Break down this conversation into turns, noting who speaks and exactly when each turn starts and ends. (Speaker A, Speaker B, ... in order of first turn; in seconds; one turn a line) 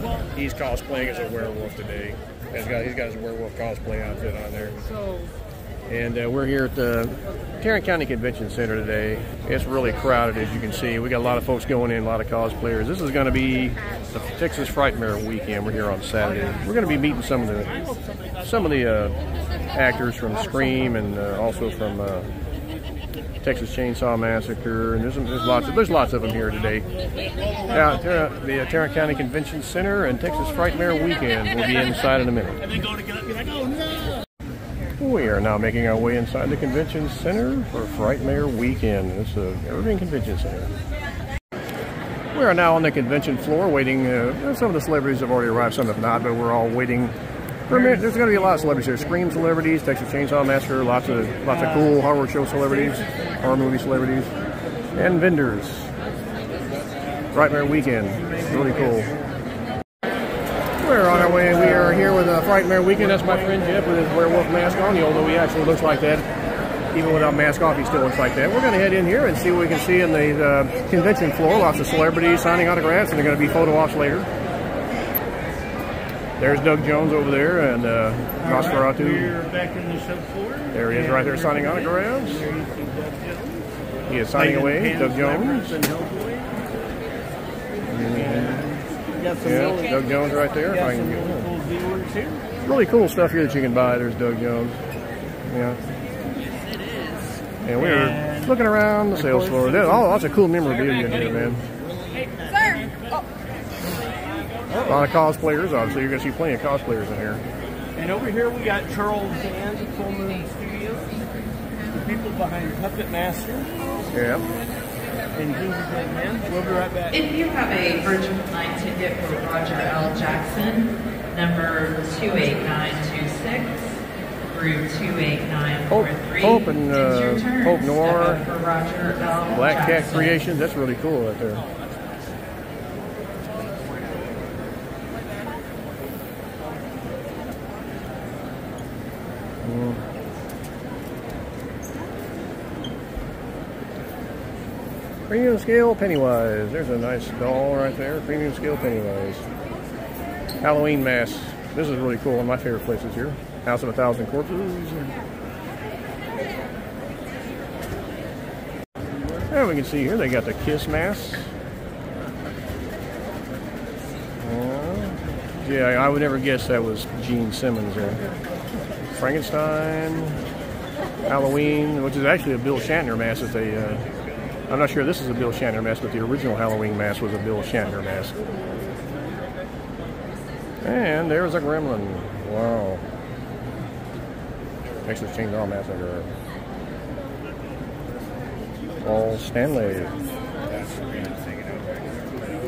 Speaker A: 0.3-4.8
Speaker A: 5.9-17.8
Speaker A: 18.4-19.1
Speaker A: 19.7-22.3
Speaker A: 23.4-26.9
Speaker A: 27.6-32.6
Speaker B: 33.1-33.5
Speaker A: 35.0-40.7
Speaker A: 42.3-47.1
Speaker A: 47.7-54.3
Speaker B: 48.0-49.2
Speaker B: 51.5-51.9
Speaker B: 53.0-53.3
Speaker A: 54.9-55.9
Speaker A: 57.3-59.1
Speaker B: 58.2-59.2
Speaker A: 60.8-66.3
Speaker B: 61.3-62.2
Speaker B: 63.2-63.7
Speaker A: 66.9-74.3
Speaker A: 76.4-79.3
Speaker B: 78.4-83.7
Speaker A: 80.7-82.4
Speaker A: 84.1-85.8
Speaker B: 84.3-86.5
Speaker A: 87.9-88.7
Speaker B: 88.1-90.0
Speaker A: 89.4-91.5
Speaker B: 90.7-92.4
Speaker A: 92.6-94.8
Speaker A: 95.5-95.8
Speaker A: 97.6-101.6
Speaker B: 97.7-98.6
Speaker B: 99.1-100.1
Speaker B: 104.7-105.0
Speaker A: 104.8-107.4
Speaker B: 108.0-111.1
Speaker B: 111.9-114.1
Speaker A: 114.1-114.5
Speaker B: 115.3-117.1
Speaker C: 117.1-130.3
Speaker A: 125.9-128.4
Speaker A: 129.5-131.6
Speaker A: 139.6-140.0
Speaker A: 145.3-149.4
Speaker A: 150.6-155.1
Speaker A: 159.5-161.5
Speaker A: 164.4-168.2
Speaker A: 169.2-170.4
Speaker A: 171.2-174.0
Speaker A: 174.7-178.4
Speaker A: 180.8-183.0
Speaker A: 185.0-186.3
Speaker A: 189.0-190.2